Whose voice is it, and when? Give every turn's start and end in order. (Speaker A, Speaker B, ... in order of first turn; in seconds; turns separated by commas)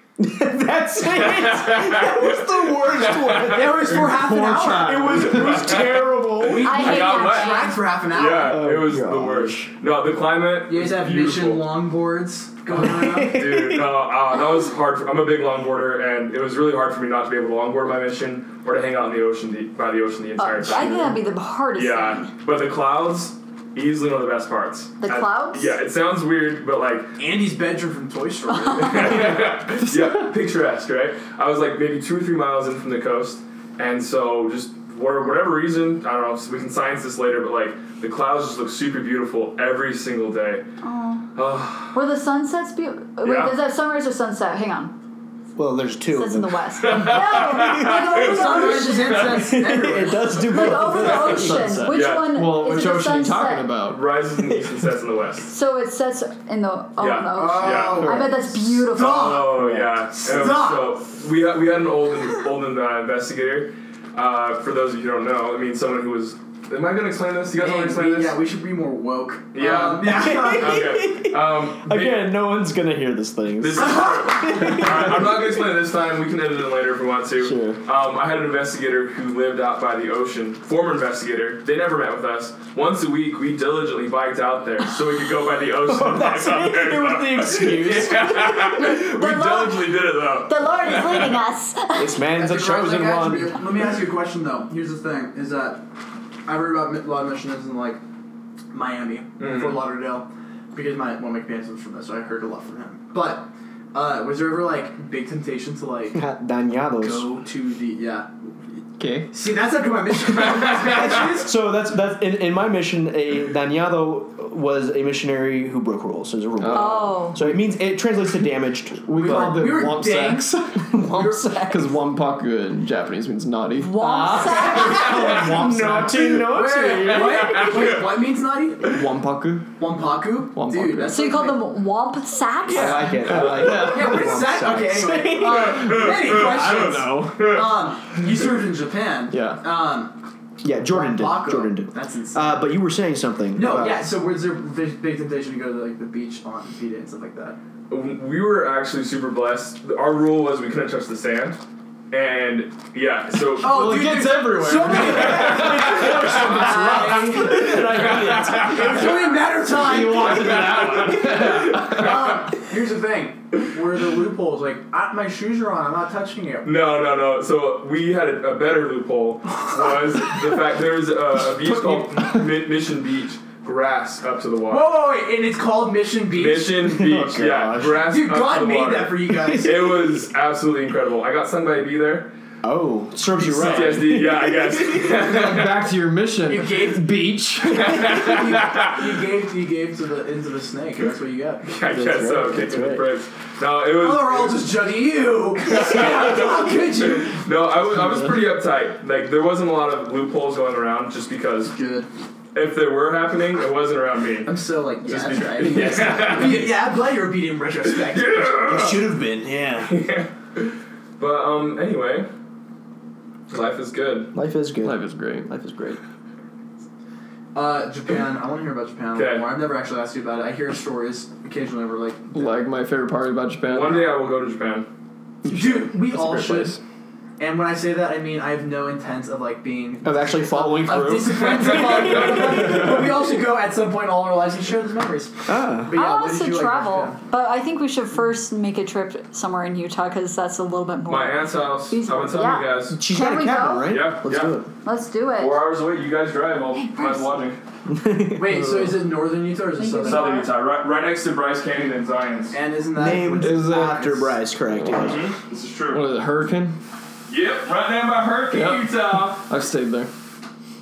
Speaker A: 0.2-6.8, Speaker B: 1.0-4.1, Speaker C: 3.4-5.6, Speaker B: 4.9-11.7, Speaker C: 6.4-8.6, Speaker D: 6.6-7.8, Speaker A: 8.5-9.7, Speaker C: 10.7-13.4, Speaker A: 12.7-13.9, Speaker B: 13.2-21.2, Speaker D: 20.4-22.3, Speaker B: 21.7-27.2, Speaker D: 25.0-25.7, Speaker C: 27.2-29.4, Speaker B: 28.7-40.6, Speaker D: 40.8-41.2, Speaker B: 41.3-42.0, Speaker D: 41.9-44.9, Speaker B: 43.2-43.5, Speaker A: 45.5-51.9, Speaker D: 46.1-49.5, Speaker B: 46.8-49.0, Speaker C: 48.1-50.9, Speaker D: 50.4-53.7, Speaker E: 50.9-54.0, Speaker B: 51.9-52.4, Speaker B: 53.8-55.5, Speaker D: 55.5-59.3, Speaker B: 57.0-58.2, Speaker C: 57.4-61.0, Speaker B: 59.0-68.4, Speaker C: 67.6-71.0, Speaker B: 69.5-72.3, Speaker A: 70.1-75.5, Speaker B: 73.6-91.4, Speaker C: 73.8-74.9, Speaker A: 77.4-77.8, Speaker A: 85.8-88.8, Speaker D: 88.8-92.2, Speaker A: 91.9-93.7, Speaker C: 92.2-95.8, Speaker C: 96.4-98.0, Speaker C: 98.7-106.2, Speaker B: 99.4-99.8, Speaker A: 106.1-107.3, Speaker C: 107.0-111.5, Speaker E: 109.0-109.3, Speaker A: 111.0-119.7, Speaker E: 116.6-117.6, Speaker D: 116.7-117.4, Speaker E: 119.0-124.5, Speaker C: 119.2-121.5, Speaker A: 120.9-121.8, Speaker D: 123.7-125.4, Speaker A: 124.0-127.9, Speaker C: 124.5-129.0, Speaker E: 125.5-126.3, Speaker B: 127.0-128.1, Speaker E: 128.8-129.8, Speaker C: 129.8-131.6, Speaker E: 130.5-131.2, Speaker D: 131.1-133.1, Speaker E: 132.7-134.5, Speaker A: 132.7-135.9, Speaker C: 133.3-140.1, Speaker B: 135.7-137.7, Speaker E: 136.2-137.6, Speaker E: 139.3-139.6, Speaker A: 140.6-144.0, Speaker C: 140.8-142.7, Speaker C: 143.5-147.6, Speaker B: 147.9-151.6, Speaker B: 152.1-153.8, Speaker C: 153.6-166.7, Speaker E: 153.6-162.2, Speaker B: 154.8-156.6, Speaker A: 156.8-158.7, Speaker B: 157.6-159.3, Speaker B: 160.3-162.3, Speaker B: 166.6-174.9, Speaker C: 174.7-176.9, Speaker B: 176.3-182.3, Speaker A: 176.8-178.1, Speaker C: 177.9-179.9, Speaker A: 182.6-184.9, Speaker E: 183.4-184.2, Speaker B: 183.5-185.9, Speaker E: 185.0-188.2, Speaker C: 186.4-187.3, Speaker B: 187.6-189.1, Speaker C: 187.9-191.6, Speaker B: 191.6-194.6, Speaker A: 191.9-193.0, Speaker C: 193.9-197.4, Speaker B: 195.6-201.8, Speaker C: 201.7-202.1, Speaker B: 202.5-204.5, Speaker C: 204.4-208.7, Speaker B: 205.0-206.7, Speaker B: 207.8-209.1, Speaker A: 208.6-209.9, Speaker B: 209.8-212.3, Speaker B: 213.5-214.3, Speaker A: 214.3-216.0, Speaker E: 214.8-215.5, Speaker C: 217.5-222.5, Speaker B: 219.1-219.5, Speaker E: 222.3-224.1, Speaker B: 223.7-224.9, Speaker C: 225.4-226.8, Speaker E: 225.4-226.8, Speaker C: 227.4-237.2, Speaker A: 230.0-232.9, Speaker B: 231.7-232.7, Speaker A: 235.5-235.9, Speaker D: 235.9-244.0, Speaker B: 241.1-243.0, Speaker A: 242.9-244.7, Speaker B: 243.8-244.6, Speaker D: 244.8-245.6, Speaker B: 245.3-247.6, Speaker D: 246.7-247.3, Speaker A: 247.9-248.9, Speaker C: 248.3-250.3, Speaker D: 249.8-250.5, Speaker B: 250.0-252.6, Speaker C: 252.5-254.3, Speaker A: 252.9-255.2, Speaker E: 253.2-254.2, Speaker E: 254.7-255.1, Speaker B: 254.9-256.1, Speaker E: 255.9-256.8, Speaker B: 257.3-259.5, Speaker E: 258.5-260.1